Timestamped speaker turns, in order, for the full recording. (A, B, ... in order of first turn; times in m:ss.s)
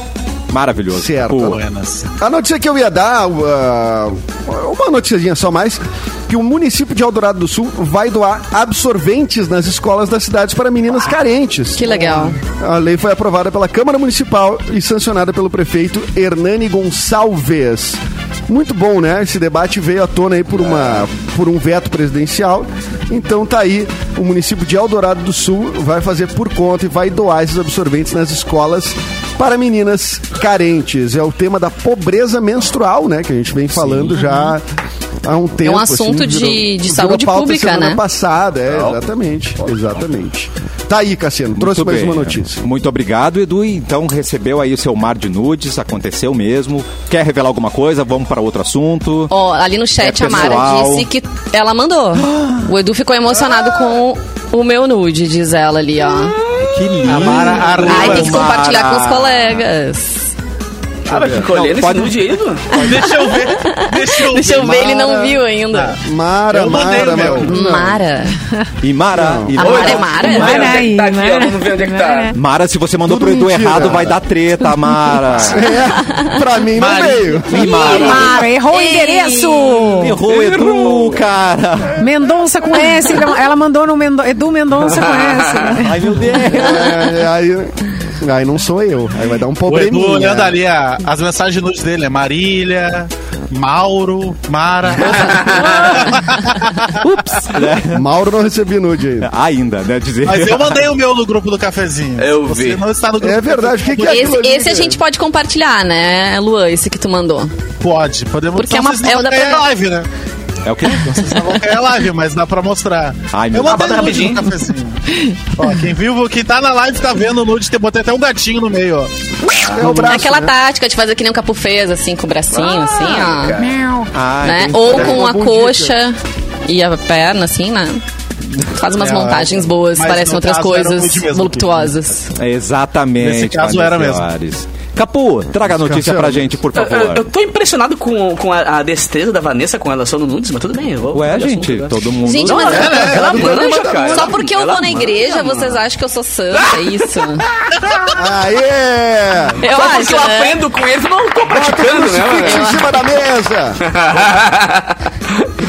0:00.5-0:01.6 A
0:00.9-0:01.6 B
0:01.4-0:02.1 C
0:02.2-0:34.6 B
0:11.7-0:12.4 D
0:33.8-0:34.5 A
0:35.2-0:42.6 B
0:35.6-0:38.0 D
0:41.6-0:49.3 A
0:49.3-0:56.4 D
0:50.0-0:51.1 A
0:52.2-0:52.7 A
0:56.6-0:59.6 A
0:57.0-0:58.5 C
0:57.1-1:00.3 D
1:01.0-1:02.8 E
1:01.1-1:01.5 B
1:01.5-1:02.2 A
1:02.7-1:06.0 C
1:02.7-1:06.0 D
1:06.0-1:08.0 B
1:06.5-1:07.6 C
1:07.4-1:08.3 D
1:08.8-1:10.9 A
1:09.1-1:09.6 B
1:09.6-1:10.8 D
1:09.6-1:12.3 E
1:10.2-1:12.4 F
1:12.3-1:15.7 A
1:13.0-1:14.2 B
1:15.4-1:17.9 B
1:16.7-1:18.1 C
1:17.5-1:18.4 A
1:17.6-1:20.2 F
1:17.6-1:20.0 D
1:20.0-1:22.0 A
1:20.3-1:21.2 E
1:22.0-1:26.2 F
1:25.1-1:25.7 E
1:25.8-1:27.0 A
1:26.5-1:30.6 B
1:29.6-1:37.0 C
1:35.1-1:36.0 E
1:35.6-1:36.3 A
1:37.0-1:38.0 A
1:37.9-1:39.3 B
1:39.2-1:40.8 A
1:40.2-1:44.4 C
1:42.2-1:42.8 E
1:43.2-1:45.0 B
1:44.0-1:47.5 D
1:47.8-1:50.1 C
1:48.5-1:49.7 D
1:50.6-1:51.5 A
1:51.0-1:59.1 C
1:53.3-1:54.0 A
1:53.6-1:54.5 E
1:59.5-1:59.8 E
1:59.5-2:00.5 B
1:59.6-2:03.6 D
2:02.5-2:03.7 E
2:03.6-2:04.1 F
2:04.1-2:05.2 A
2:04.4-2:08.0 D
2:04.8-2:06.0 B
2:08.6-2:12.3 D
2:09.0-2:09.6 B
2:10.0-2:11.9 C
2:12.4-2:17.2 A
2:13.2-2:14.3 C
2:15.7-2:16.5 B
2:16.7-2:25.8 E
2:21.1-2:22.9 A
2:22.2-2:27.5 D
2:22.7-2:23.4 C
2:22.8-2:24.3 B
2:26.5-2:28.1 E
2:28.1-2:29.6 B
2:29.6-2:30.6 D
2:29.6-2:32.8 E
2:31.4-2:33.8 B
2:32.4-2:32.9 D
2:33.8-2:35.4 E